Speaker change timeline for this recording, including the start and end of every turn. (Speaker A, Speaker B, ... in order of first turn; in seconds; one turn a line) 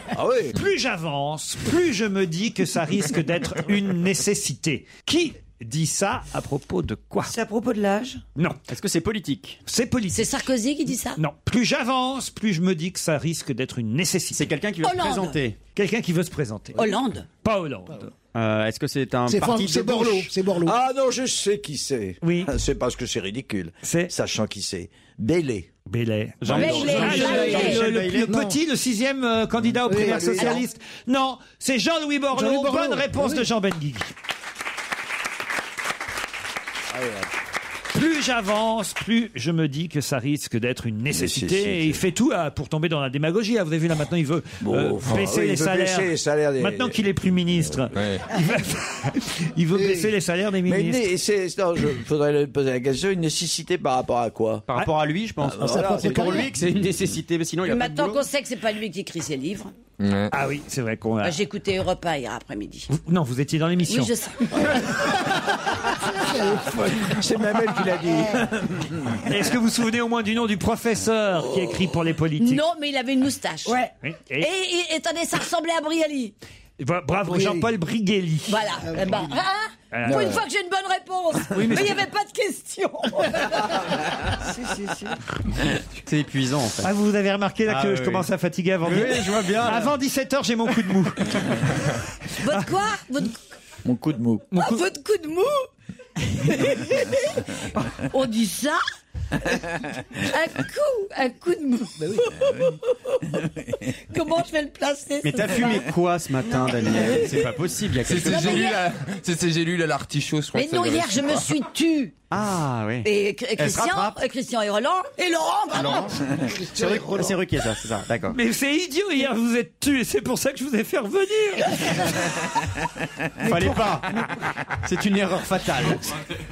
Speaker A: 0.1-0.6
Speaker B: 0.5-7.3
Speaker C: 7.2-8.2
Speaker B: 8.4-8.6
Speaker D: 8.7-9.6
Speaker B: 9.7-10.3
Speaker E: 10.1-11.2
Speaker B: 11.2-14.5
Speaker D: 14.3-15.6
Speaker E: 14.8-15.4
Speaker B: 15.8-16.9
Speaker E: 16.8-17.3
Speaker B: 17.4-18.1
Speaker D: 18.3-20.4
Speaker F: 19.3-20.8
Speaker A: 20.6-25.7
Speaker B: 22.2-22.5
Speaker B: 23.8-24.1
Speaker B: 25.9-34.1
Speaker D: 26.4-28.4
Speaker A: 26.5-27.2
Speaker E: 26.5-27.9
Speaker F: 28.2-28.6
Speaker F: 29.9-30.6
Speaker A: 29.9-30.6
Speaker F: 32.3-33.5
Speaker A: 36.9-37.3
Speaker B: 37.9-51.1
Speaker A: 41.1-42.0
Speaker A: 44.6-47.0
Speaker G: 47.9-48.2
Speaker F: 49.7-50.1
Speaker A: 50.7-54.6
Speaker D: 54.7-58.2
Speaker A: 55.4-56.5
Speaker F: 55.6-56.5
Speaker E: 57.6-59.7
Speaker G: 60.0-60.3
Speaker B: 60.3-61.4
Speaker E: 61.2-62.9
Speaker B: 62.9-64.1
Speaker E: 63.9-65.1
Speaker F: 65.9-67.2
Speaker A: 66.9-69.1
Speaker B: 69.2-72.6
Speaker E: 72.4-73.8
Speaker C: 73.7-73.9
Speaker B: 74.0-74.5
Speaker E: 74.4-76.3
Speaker B: 76.8-78.6
Speaker F: 77.3-77.7
Speaker E: 78.5-84.0
Speaker F: 78.8-79.3
Speaker B: 79.9-80.4
Speaker B: 81.5-82.0
Speaker C: 84.3-85.2
Speaker D: 86.0-86.9
Speaker B: 86.8-91.7
Speaker D: 87.7-88.3
Speaker D: 88.8-90.0
Speaker E: 92.4-93.4
Speaker A: 93.8-94.5
Speaker B: 94.5-94.8
Speaker E: 94.5-95.7
Speaker E: 96.4-98.8
Speaker E: 100.2-103.4
Speaker E: 103.9-105.9
Speaker D: 105.2-108.7
Speaker C: 106.5-107.4
Speaker G: 108.0-111.6
Speaker E: 108.2-108.8
Speaker E: 110.5-112.2
Speaker D: 112.3-114.2
Speaker E: 113.0-116.2
Speaker D: 115.7-118.4
Speaker F: 116.3-117.4
Speaker B: 118.3-122.3
Speaker D: 123.4-124.1
Speaker D: 124.8-126.1